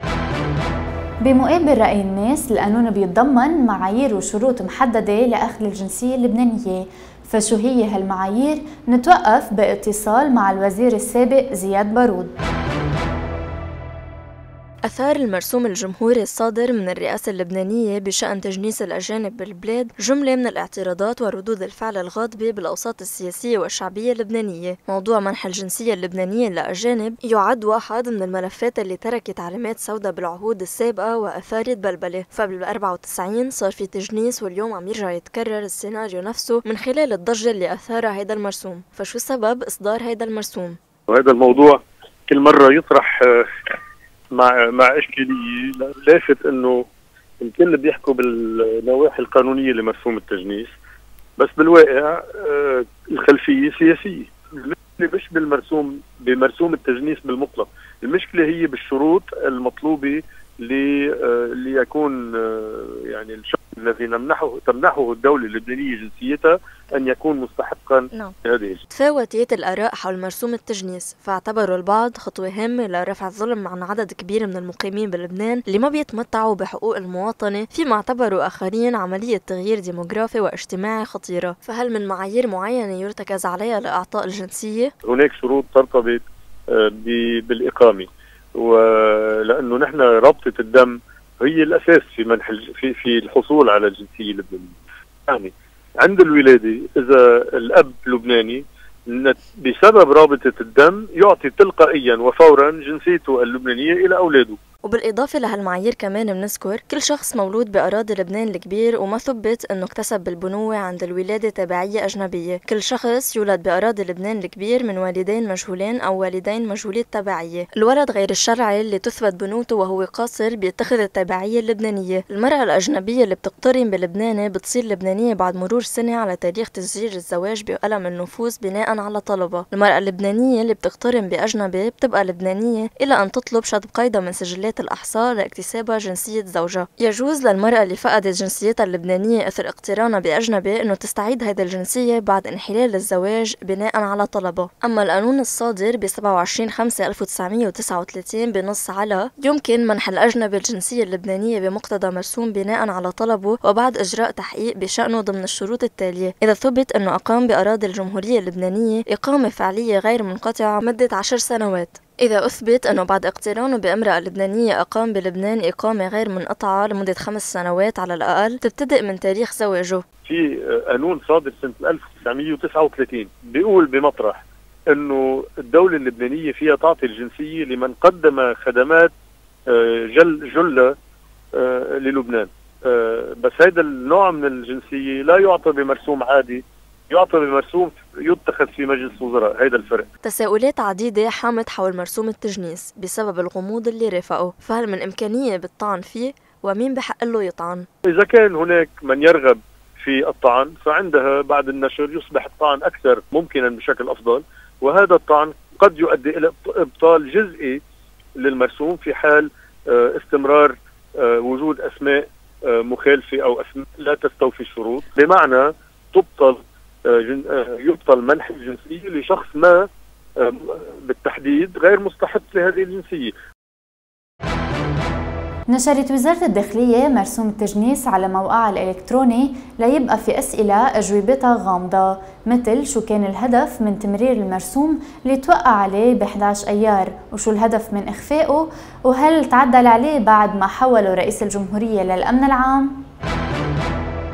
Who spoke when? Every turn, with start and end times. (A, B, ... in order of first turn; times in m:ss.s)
0:01.2-0:12.4 A
0:14.8-0:40.8 B
0:41.1-0:43.4 C
0:44.3-0:46.8 C
0:47.4-0:50.7 C
0:51.4-1:08.8 C
1:08.9-1:24.9 B
1:25.0-1:26.2 C
1:26.7-1:28.1 C
1:28.6-1:34.7 C
1:35.3-1:44.6 C
1:44.8-2:50.0 B
2:50.2-2:59.1 C
2:59.7-3:00.9 C
3:01.6-3:10.1 C
3:10.2-3:17.9 B
3:18.1-3:27.8 C
3:28.4-3:36.6 C
3:37.1-3:39.8 C
3:40.4-3:43.3 C
3:45.7-4:03.0 A